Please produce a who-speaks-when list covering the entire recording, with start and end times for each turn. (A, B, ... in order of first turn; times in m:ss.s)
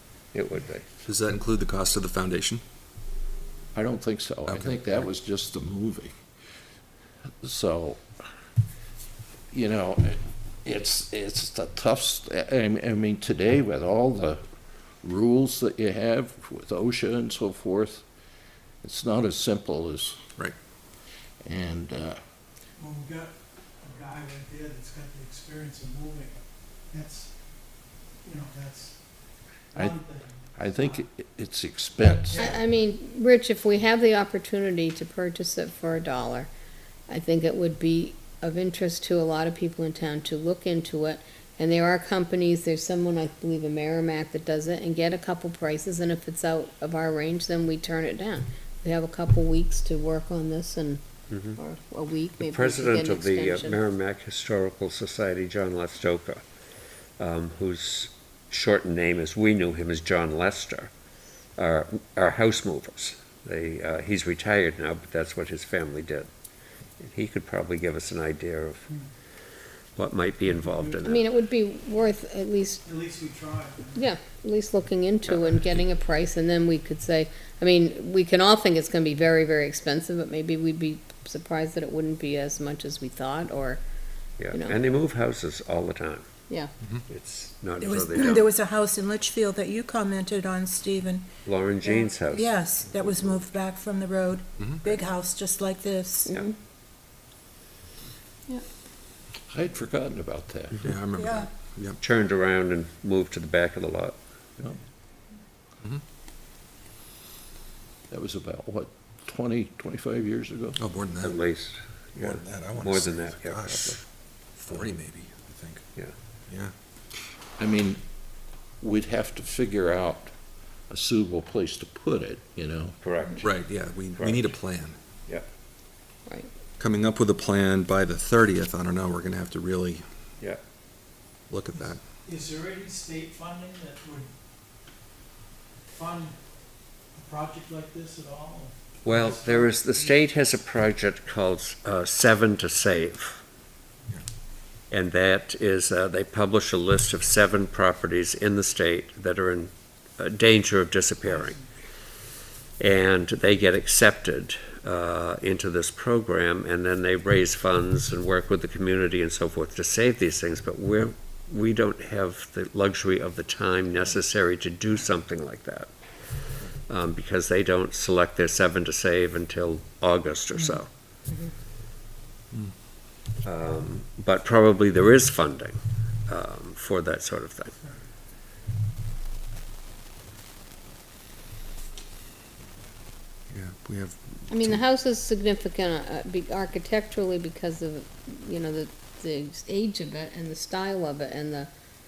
0:00.3-0:00.8 A
0:01.0-0:02.6 B
0:03.7-0:06.2 C
0:04.5-0:05.0 B
0:07.4-0:08.0 C
0:09.5-0:14.4 C
0:15.0-0:18.0 C
0:18.8-0:20.2 C
0:21.4-0:22.2 C
0:22.8-0:31.0 D
0:29.7-0:32.6 C
0:32.0-0:32.6 D
0:32.3-0:36.5 E
0:37.1-0:53.8 E
0:51.3-0:51.6 A
0:52.4-0:56.4 A
0:57.2-1:00.9 A
1:01.6-1:06.3 A
1:07.0-1:08.9 A
1:10.0-1:11.2 A
1:11.0-1:12.8 E
1:12.8-1:14.1 D
1:14.0-1:23.8 E
1:15.2-1:15.8 A
1:24.4-1:26.2 A
1:24.5-1:24.8 E
1:27.1-1:28.4 A
1:27.8-1:31.3 F
1:31.4-1:32.5 A
1:31.8-1:36.3 F
1:34.6-1:34.8 B
1:36.2-1:36.5 E
1:39.5-1:40.8 C
1:40.8-1:42.0 B
1:41.2-1:41.5 F
1:42.0-1:44.2 A
1:48.1-1:50.8 C
1:50.8-1:51.4 B
1:51.2-1:54.0 A
1:52.1-1:55.8 B
1:56.5-1:56.7 B
1:57.6-1:58.0 C
1:58.8-2:00.3 C
2:00.9-2:03.0 C
2:03.0-2:04.5 A
2:03.4-2:05.0 B
2:06.8-2:10.0 B
2:11.5-2:12.0 B
2:11.8-2:14.3 D
2:15.9-2:20.2 D
2:19.0-2:23.4 A
2:24.9-2:31.6 A
2:31.3-2:31.5 D
2:32.8-2:45.9 A
2:46.9-2:50.9 A
2:53.4-2:57.7 A
3:03.5-3:04.8 B
3:04.5-3:11.7 E